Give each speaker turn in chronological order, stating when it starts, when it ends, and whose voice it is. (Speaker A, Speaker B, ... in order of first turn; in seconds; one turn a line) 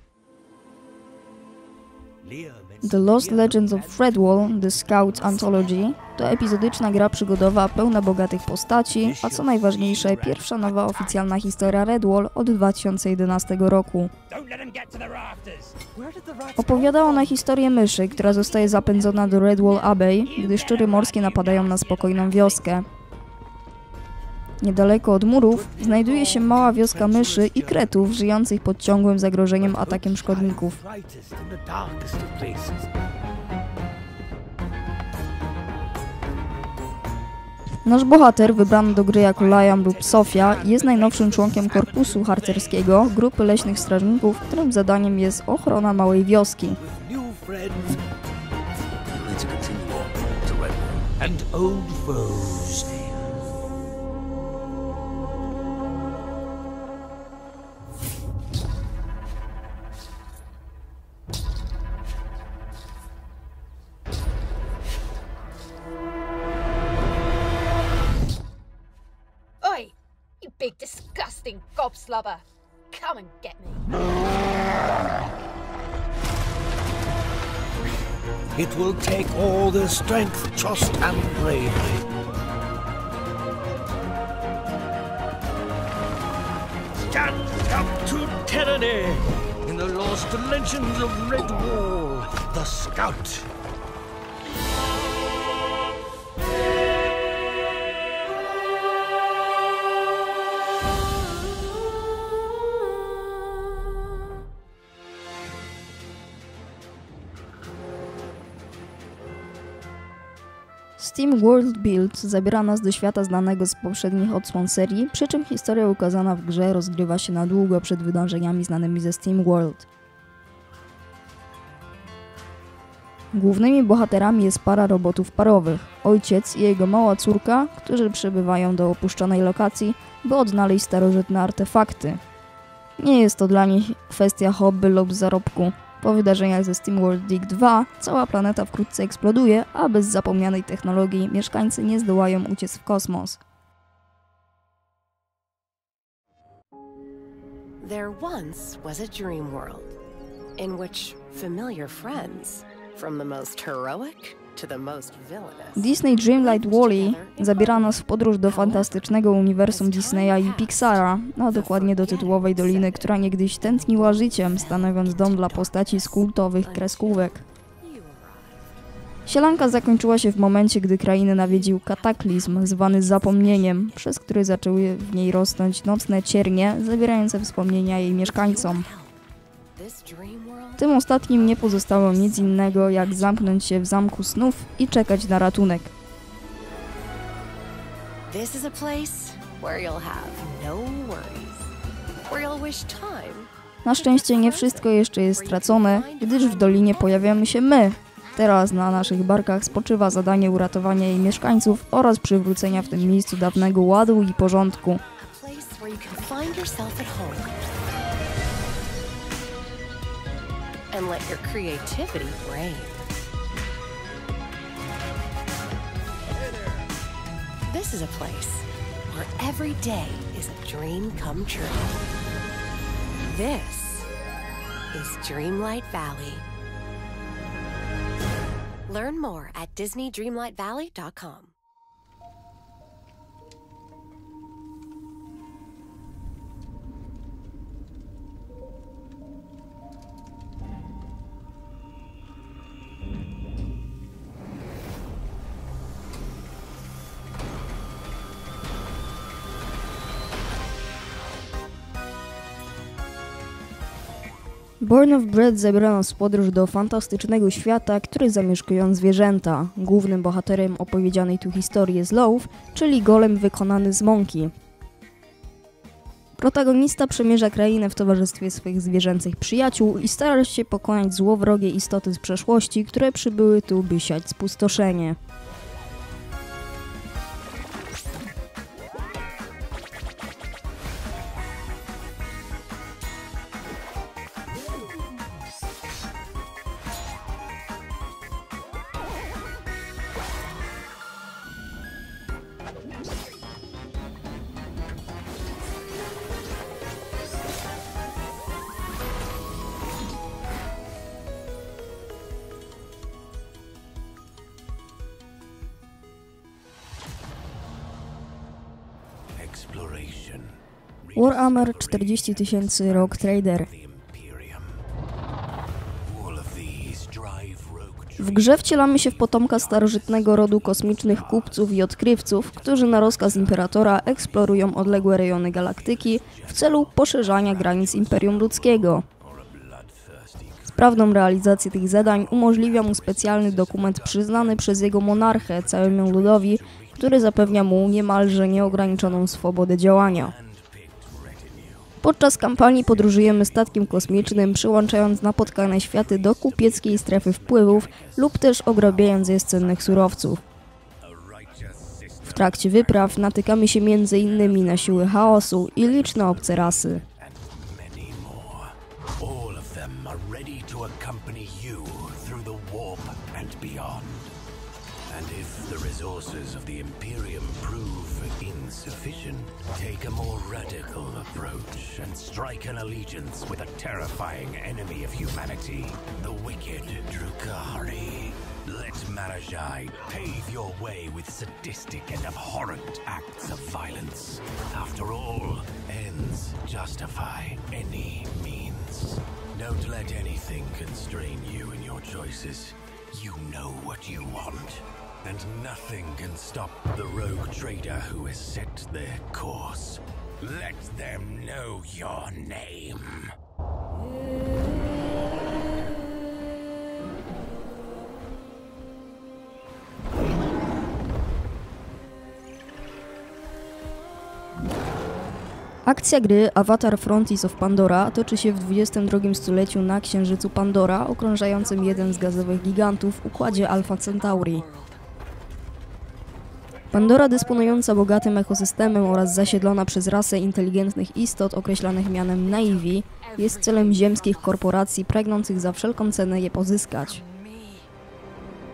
Speaker A: 2.2-4.2
Speaker B: 2.8-4.4
Speaker C: 2.8-14.1
Speaker B: 9.0-11.2
Speaker A: 14.3-15.8
Speaker D: 15.9-17.1
Speaker C: 16.6-22.9
Speaker A: 20.3-22.6
Speaker C: 24.6-30.8
Speaker A: 25.5-28.0
Speaker A: 29.6-32.9
Speaker C: 37.8-46.8
Speaker A: 38.9-42.8
Speaker A: 46.8-48.0
Speaker A: 49.1-53.1
Speaker E: 69.6-69.9
Speaker E: 70.5-73.8
Speaker A: 78.5-82.0
Speaker A: 87.0-93.5
Speaker C: 111.0-119.9
Speaker C: 123.3-132.2
Speaker C: 133.0-143.4
Speaker D: 147.8-149.9
Speaker D: 150.6-159.1
Speaker C: 155.8-167.4
Speaker D: 159.7-168.8
Speaker C: 169.2-178.9
Speaker D: 171.4-174.1
Speaker D: 177.8-179.2
Speaker D: 179.7-183.7
Speaker C: 180.8-185.9
Speaker D: 188.3-191.7
Speaker D: 192.3-197.5
Speaker C: 193.8-205.0
Speaker D: 202.6-204.3
Speaker D: 205.2-207.6
Speaker D: 210.9-213.2
Speaker D: 217.7-221.9
Speaker D: 223.2-224.1
Speaker D: 224.9-226.4
Speaker D: 228.9-231.5
Speaker C: 254.8-264.5
Speaker C: 266.4-275.2
Speaker B: 309.3-314.8
Speaker C: 311.1-313.7
Speaker B: 316.0-342.0
Speaker C: 318.2-329.0
Speaker C: 330.7-340.3
Speaker C: 342.0-350.4
Speaker B: 342.7-350.3
Speaker B: 351.0-364.3
Speaker C: 352.2-357.0
Speaker B: 365.1-403.4
Speaker C: 415.9-424.6
Speaker F: 421.4-425.0
Speaker C: 426.9-437.2
Speaker F: 432.4-434.7
Speaker F: 437.0-437.9